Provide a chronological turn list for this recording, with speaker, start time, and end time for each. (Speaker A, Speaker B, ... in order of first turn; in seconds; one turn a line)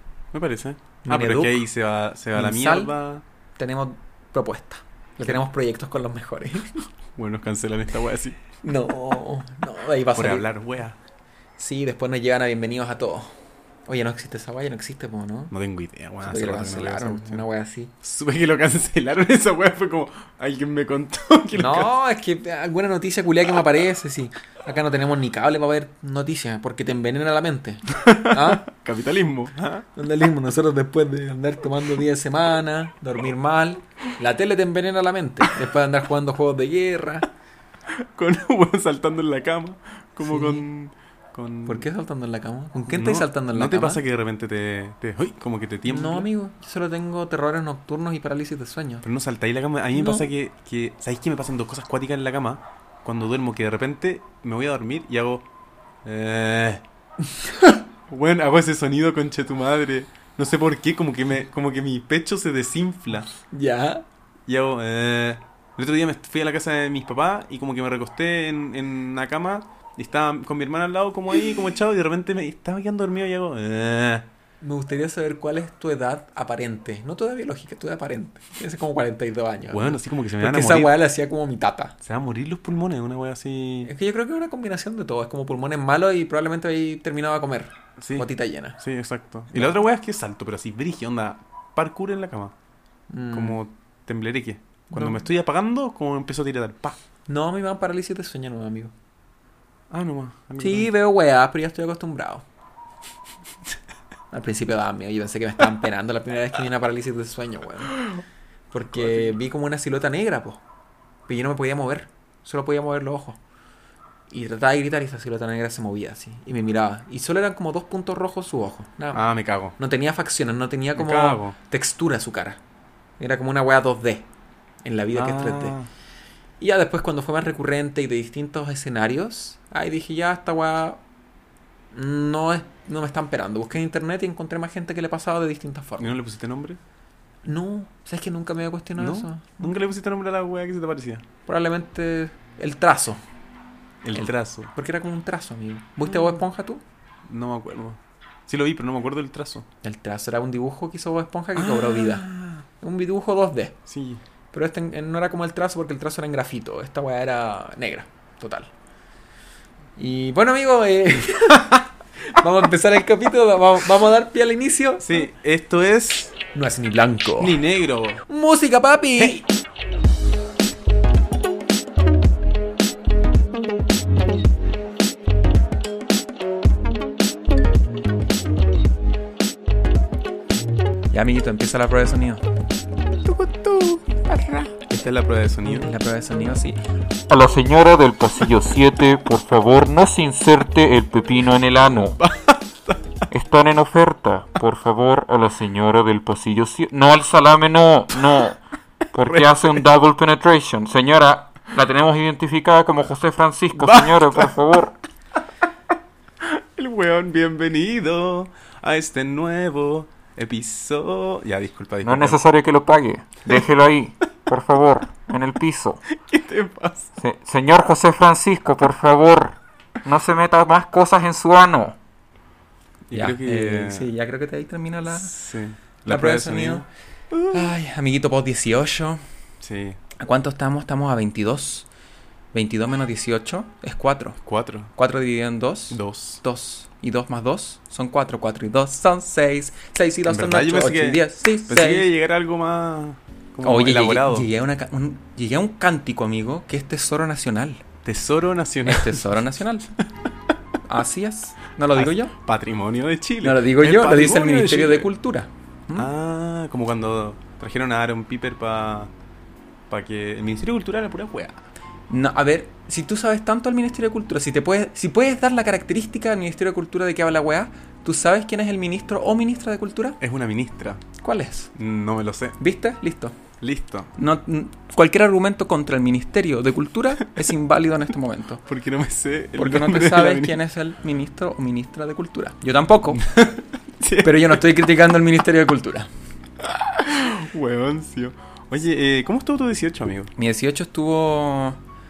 Speaker A: 0.3-3.2
Speaker B: 1.0-1.6
Speaker B: 2.3-2.9
Speaker B: 3.6-6.8
Speaker A: 7.2-8.4
Speaker B: 8.6-10.5
Speaker A: 10.1-10.9
Speaker B: 11.6-13.3
Speaker B: 13.9-15.5
Speaker A: 15.5-17.4
Speaker B: 16.2-17.9
Speaker A: 18.0-21.9
Speaker B: 21.5-28.7
Speaker A: 27.9-29.9
Speaker B: 29.9-37.3
Speaker A: 37.9-41.9
Speaker B: 40.2-40.6
Speaker B: 41.6-44.0
Speaker A: 42.9-46.3
Speaker B: 45.9-49.0
Speaker A: 49.0-55.5
Speaker B: 49.9-50.3
Speaker A: 56.0-56.8
Speaker A: 58.1-63.3
Speaker B: 63.5-64.0
Speaker A: 64.5-74.3
Speaker B: 74.6-82.0
Speaker A: 79.7-81.0
Speaker A: 82.0-83.9
Speaker B: 83.8-88.8
Speaker A: 88.0-92.5
Speaker B: 93.1-93.6
Speaker A: 93.3-97.0
Speaker B: 94.9-95.2
Speaker B: 97.3-98.9
Speaker A: 99.9-100.9
Speaker B: 100.6-102.4
Speaker B: 104.3-108.0
Speaker B: 108.7-110.6
Speaker A: 108.9-109.3
Speaker B: 111.3-113.4
Speaker B: 114.3-119.2
Speaker A: 119.1-119.7
Speaker B: 119.8-122.6
Speaker A: 121.0-121.5
Speaker B: 123.2-124.3
Speaker B: 124.8-125.8
Speaker A: 125.1-125.9
Speaker B: 126.6-131.0
Speaker B: 131.9-136.1
Speaker A: 136.0-136.8
Speaker B: 137.4-139.7
Speaker A: 139.0-141.2
Speaker B: 141.4-143.2
Speaker A: 144.0-144.7
Speaker B: 144.1-146.8
Speaker A: 146.1-146.4
Speaker A: 147.2-149.7
Speaker B: 149.8-152.3
Speaker A: 151.5-152.6
Speaker B: 152.8-153.8
Speaker A: 153.9-154.2
Speaker B: 154.5-158.7
Speaker B: 160.0-165.2
Speaker A: 165.0-166.4
Speaker B: 166.5-167.6
Speaker A: 167.4-168.2
Speaker B: 168.3-169.4
Speaker B: 181.1-182.4
Speaker A: 183.2-184.2
Speaker B: 184.4-184.7
Speaker A: 184.8-185.9
Speaker B: 185.6-186.8
Speaker C: 187.3-192.2
Speaker A: 192.0-193.2
Speaker C: 193.3-198.6
Speaker C: 199.1-205.0
Speaker A: 199.2-199.8
Speaker A: 203.7-204.5
Speaker A: 206.4-212.4
Speaker C: 212.0-216.0
Speaker A: 216.1-217.2
Speaker C: 217.2-222.0
Speaker A: 223.1-224.1
Speaker B: 223.1-225.3
Speaker A: 225.1-227.7
Speaker B: 226.1-226.8
Speaker B: 227.5-229.2
Speaker A: 229.6-230.0
Speaker B: 230.2-231.9
Speaker B: 232.5-234.4
Speaker A: 234.4-234.9
Speaker B: 234.9-242.1
Speaker A: 235.9-236.4
Speaker A: 240.3-244.5
Speaker B: 243.6-247.8
Speaker A: 248.0-249.3
Speaker B: 248.8-249.9
Speaker B: 250.8-252.3
Speaker A: 251.9-255.1
Speaker B: 253.4-256.1
Speaker A: 255.9-259.1
Speaker A: 259.9-261.6
Speaker B: 262.1-270.2
Speaker A: 270.2-271.0
Speaker B: 271.2-271.7
Speaker A: 271.7-272.6
Speaker B: 272.6-273.4
Speaker A: 273.6-274.1
Speaker B: 274.1-278.6
Speaker A: 278.6-280.6
Speaker B: 279.6-283.2
Speaker A: 283.1-284.8
Speaker B: 284.2-286.1
Speaker A: 286.6-290.3
Speaker B: 290.4-291.8